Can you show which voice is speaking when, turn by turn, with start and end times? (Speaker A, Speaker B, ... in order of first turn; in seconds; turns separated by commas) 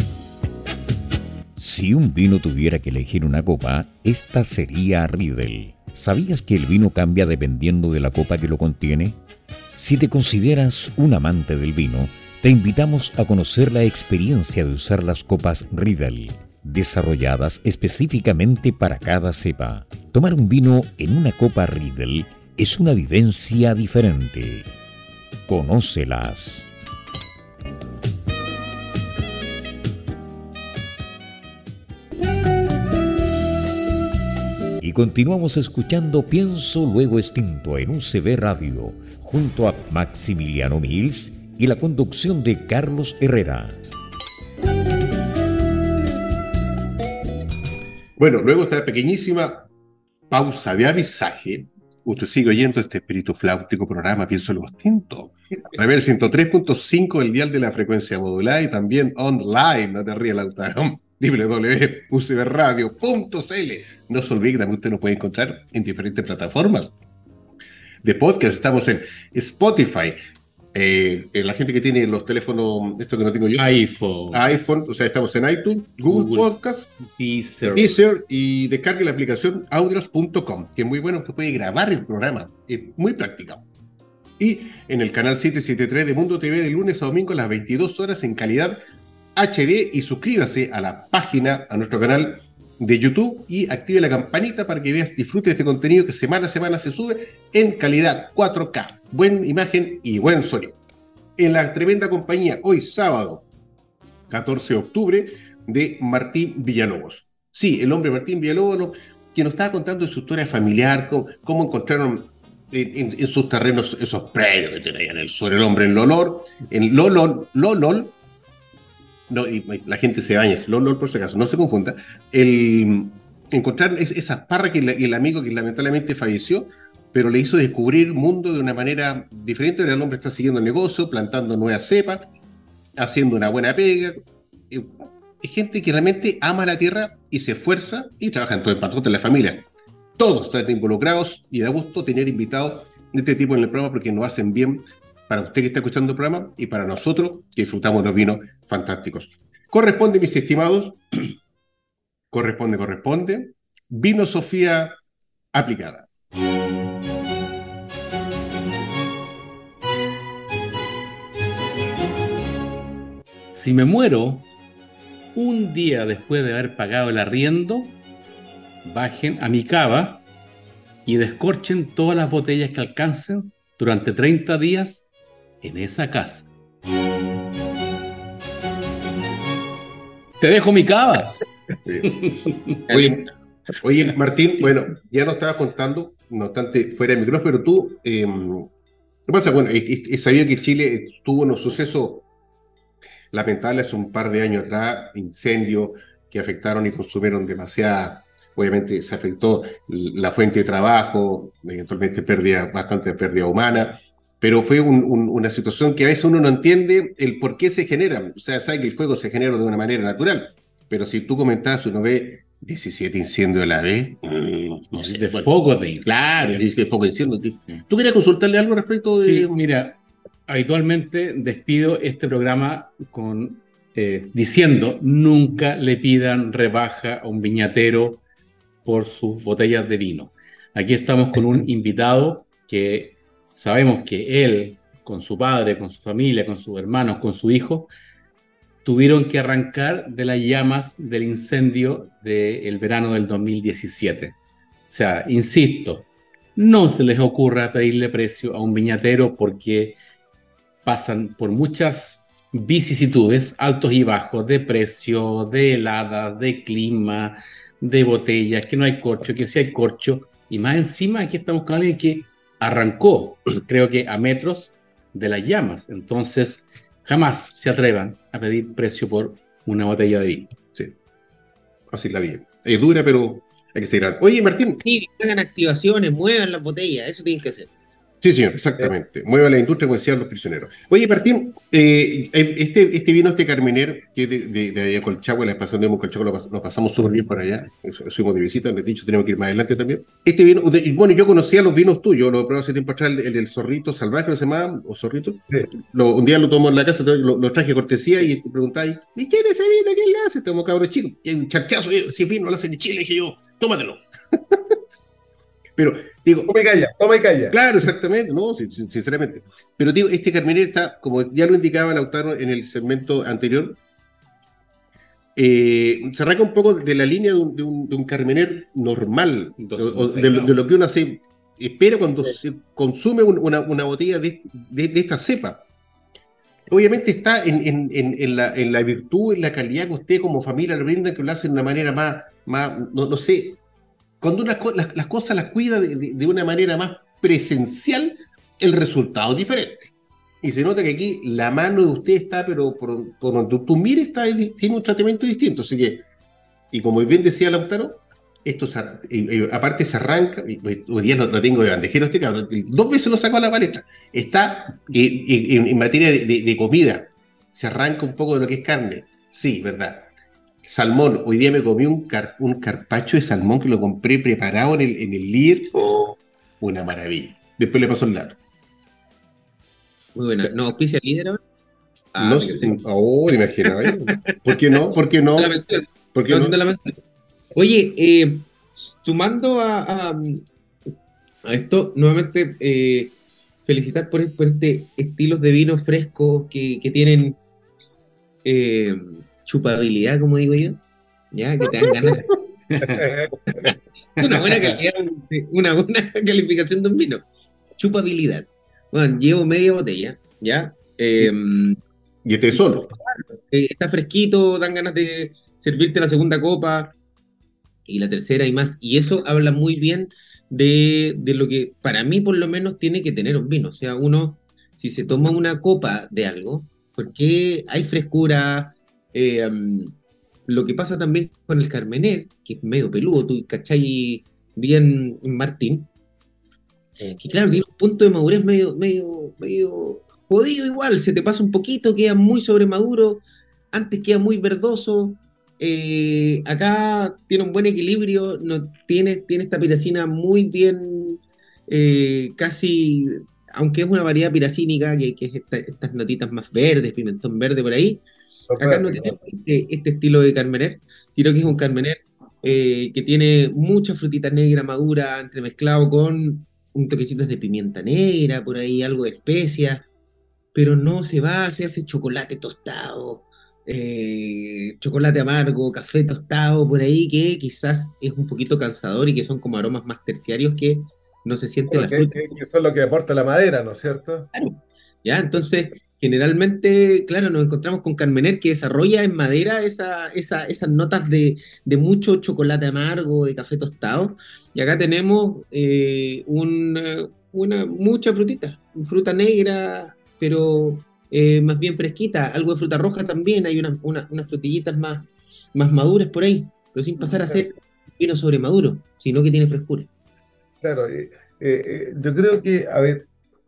Speaker A: 1.6-9.2, Speaker A: 9.8-24.7, Speaker A: 25.5-26.7, Speaker A: 34.8-43.8, Speaker B: 48.2-49.7, Speaker B: 50.3-66.9, Speaker B: 68.0-70.2, Speaker B: 70.7-73.7, Speaker C: 73.5-74.5, Speaker B: 74.3-76.9, Speaker C: 76.1-77.9, Speaker B: 77.7-83.6, Speaker B: 84.4-88.8, Speaker B: 89.3-100.8, Speaker B: 101.4-103.5, Speaker B: 104.3-118.1, Speaker B: 119.3-132.3, Speaker B: 133.0-139.7, Speaker B: 140.2-151.0, Speaker B: 152.3-155.0, Speaker B: 155.5-156.1, Speaker C: 163.5-164.5, Speaker C: 165.3-167.9, Speaker C: 168.8-170.2, Speaker C: 171.1-175.1, Speaker C: 175.6-176.5, Speaker C: 180.4-181.3, Speaker C: 182.0-182.8, Speaker D: 182.9-183.3, Speaker B: 182.9-183.2, Speaker B: 183.8-188.7, Speaker B: 189.3-192.2, Speaker B: 193.3-215.5, Speaker C: 214.9-216.6, Speaker B: 216.0-219.5, Speaker C: 219.1-228.2, Speaker C: 228.8-237.9, Speaker C: 238.8-244.3, Speaker C: 244.9-250.0, Speaker C: 250.8-270.6, Speaker B: 271.9-274.8, Speaker D: 274.8-277.7, Speaker B: 278.2-304.7, Speaker B: 305.8-306.5, Speaker E: 306.5-307.9, Speaker B: 307.5-313.8, Speaker B: 315.4-325.6, Speaker C: 319.6-320.6, Speaker B: 326.7-333.6, Speaker B: 334.2-346.0, Speaker B: 346.7-360.1, Speaker B: 360.6-368.4, Speaker D: 370.1-371.4, Speaker D: 372.1-372.8, Speaker B: 372.2-375.6, Speaker D: 373.6-374.7, Speaker D: 375.4-376.9, Speaker B: 376.1-376.6, Speaker D: 377.5-380.5, Speaker D: 381.4-383.1, Speaker D: 383.6-387.4, Speaker D: 388.4-390.8, Speaker D: 391.3-392.3, Speaker B: 391.8-392.2, Speaker C: 392.8-393.0, Speaker E: 392.9-393.6, Speaker D: 394.2-397.2, Speaker D: 397.8-401.8, Speaker B: 402.2-402.9, Speaker D: 402.5-406.9, Speaker D: 407.9-419.9, Speaker D: 420.5-425.9, Speaker D: 427.0-448.0, Speaker E: 448.5-449.2, Speaker D: 448.6-459.9, Speaker D: 460.5-472.4, Speaker E: 471.7-474.3, Speaker D: 474.3-499.9, Speaker E: 497.0-497.5, Speaker E: 500.6-503.1